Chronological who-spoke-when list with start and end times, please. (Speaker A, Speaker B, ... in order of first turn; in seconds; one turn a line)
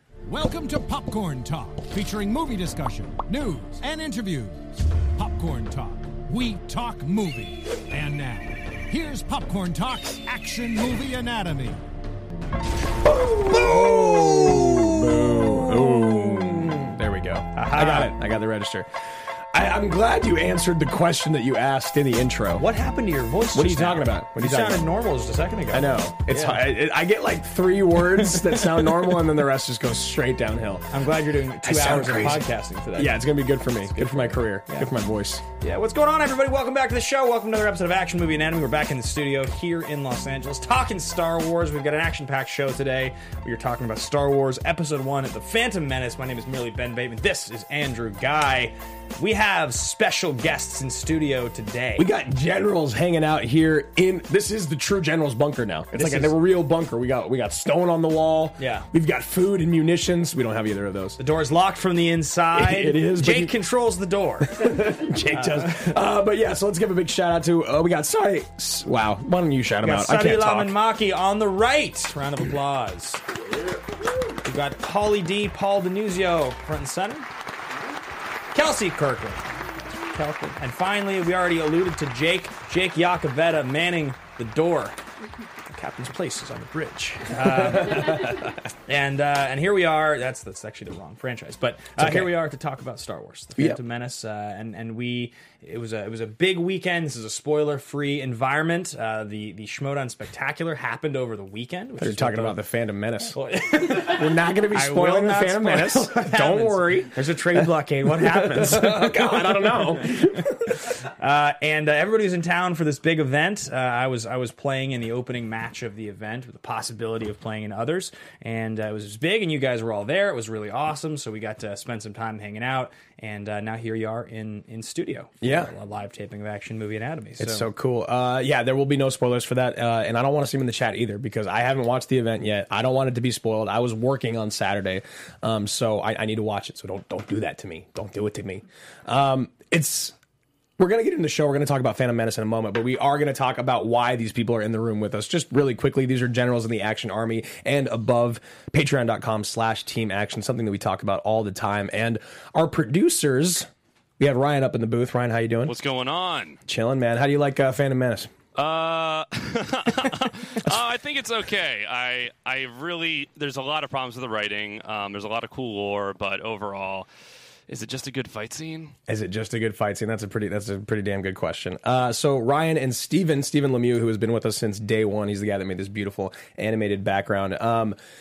Speaker A: 0.2-4.6
Speaker A: 5.2-11.8
Speaker B: 13.0-18.9
Speaker C: 13.5-16.8
Speaker C: 17.5-18.2
Speaker B: 19.5-22.7
Speaker C: 22.6-26.7
Speaker B: 23.5-24.9
Speaker B: 25.7-30.9
Speaker C: 30.9-33.2
Speaker B: 31.6-35.4
Speaker C: 33.8-34.9
Speaker C: 35.6-52.1
Speaker B: 52.0-61.2
Speaker C: 55.9-56.4
Speaker C: 58.6-58.9
Speaker C: 61.2-66.0
Speaker B: 62.5-63.5
Speaker B: 64.5-70.8
Speaker C: 69.8-73.2
Speaker C: 74.4-77.3
Speaker C: 78.5-79.5
Speaker C: 80.1-85.0
Speaker C: 85.7-102.6
Speaker B: 87.5-88.4
Speaker B: 92.0-92.3
Speaker B: 102.0-110.8
Speaker C: 103.3-127.7
Speaker B: 125.4-125.7
Speaker B: 127.4-140.2
Speaker B: 140.8-155.7
Speaker D: 155.7-156.6
Speaker B: 156.7-158.3
Speaker D: 158.6-167.1
Speaker D: 167.7-168.9
Speaker B: 169.1-178.0